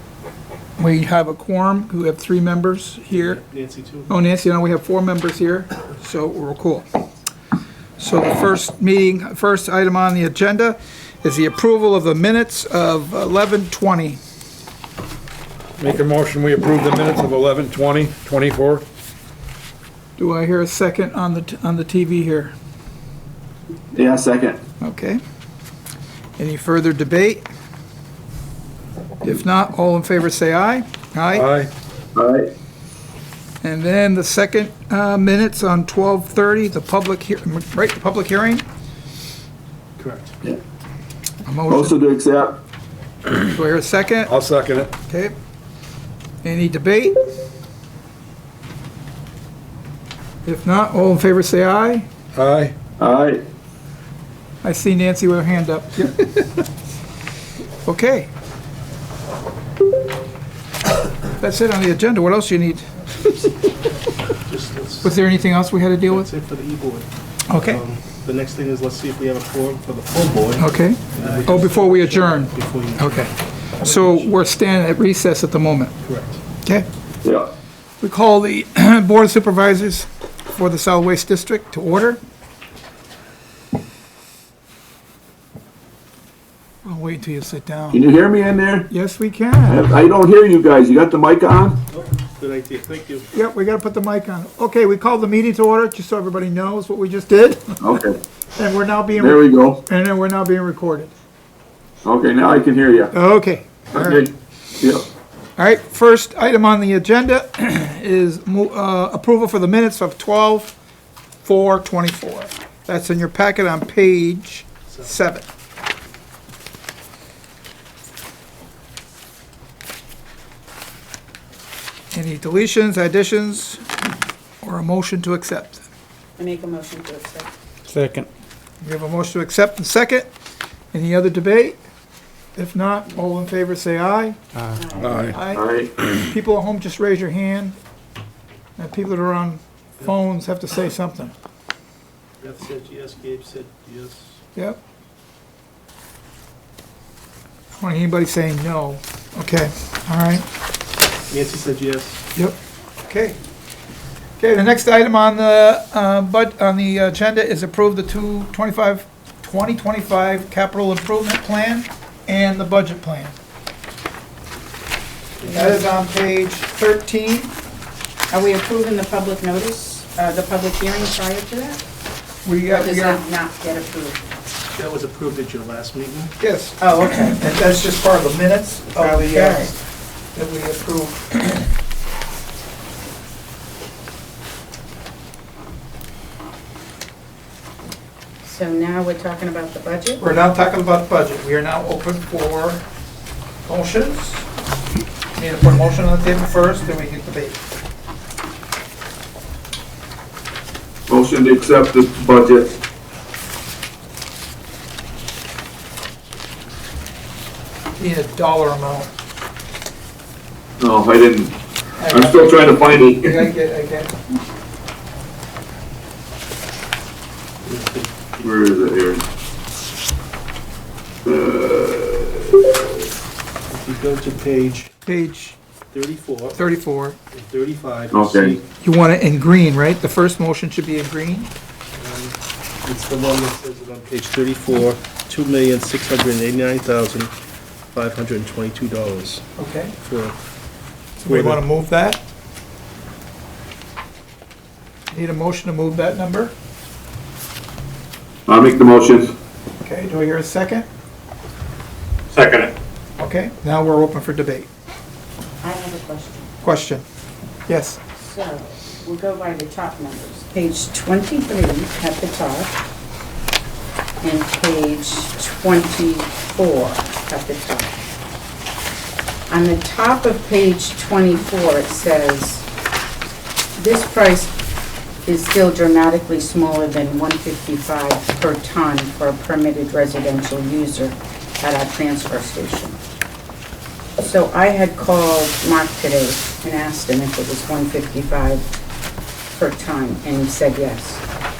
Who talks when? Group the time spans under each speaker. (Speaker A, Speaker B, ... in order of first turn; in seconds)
Speaker A: 0.8-3.4, 4.1-6.8, 8.0-14.2, 20.2-22.5, 24.8-25.2, 26.4-27.4, 29.2-31.5, 33.6-38.6, 41.4-41.9, 43.5-44.3, 45.1-45.3, 46.4-47.2, 50.4-52.1, 54.6-56.4, 57.8-58.3, 61.4-63.5, 65.0-66.3, 67.5-67.8, 70.6-75.9, 78.0-82.2, 86.8-88.0, 88.9-89.8, 93.3-97.8, 98.5-101.1, 103.1-104.2, 105.6-110.7, 111.4-115.5, 122.1-123.8, 124.6-125.8, 128.8-130.3, 130.9-131.8, 132.5-134.4, 135.2-135.6, 136.2-137.8, 138.8-141.3, 144.5-144.8, 147.8-150.4, 152.3-153.4, 154.4-163.3, 165.5-167.5, 172.4-173.2, 176.4-179.8, 180.3-181.7, 190.2-192.8, 193.6-194.5, 195.3-197.6, 208.0-209.1, 212.0-214.1, 225.1-225.6, 226.5-227.2, 228.8-231.5, 239.6-239.9, 241.2-242.2, 245.1-246.5, 249.8-250.8, 253.2-254.7, 256.6-257.0, 257.7-258.0
Speaker B: 3.1-4.1, 40.0-40.4, 64.5-65.2, 66.1-73.3, 73.8-74.3, 76.0-76.4, 91.9-93.3, 142.4-144.4, 151.3-152.2, 174.7-176.3, 217.6-218.5, 223.7-224.9, 225.9-226.6, 227.3-228.6, 231.9-237.3, 237.9-239.4, 240.0-240.3, 241.3-241.6
Speaker C: 15.8-18.8, 31.3-31.7, 44.2-44.9, 52.3-52.7, 127.9-128.3, 134.6-135.4, 252.3-252.7
Speaker D: 23.9-24.6, 32.1-32.5, 41.7-42.6, 53.0-53.4, 77.2-77.5, 87.9-88.9, 89.7-91.8, 97.8-98.2, 99.2-99.8, 102.0-103.1, 103.9-105.1, 135.5-135.9, 201.1-202.7, 210.8-211.5, 212.1-213.5, 218.4-219.2, 221.2-222.7, 228.1-228.6, 248.5-249.3
Speaker E: 126.4-127.5, 134.7-135.3, 168.3-171.8, 172.7-174.2, 176.8-177.4, 178.9-179.7, 188.4-190.2, 255.6-256.5, 258.1-262.8, 264.2-268.0, 269.5-272.6, 273.7-274.5, 275.2-283.0, 284.2-288.6, 289.5-291.2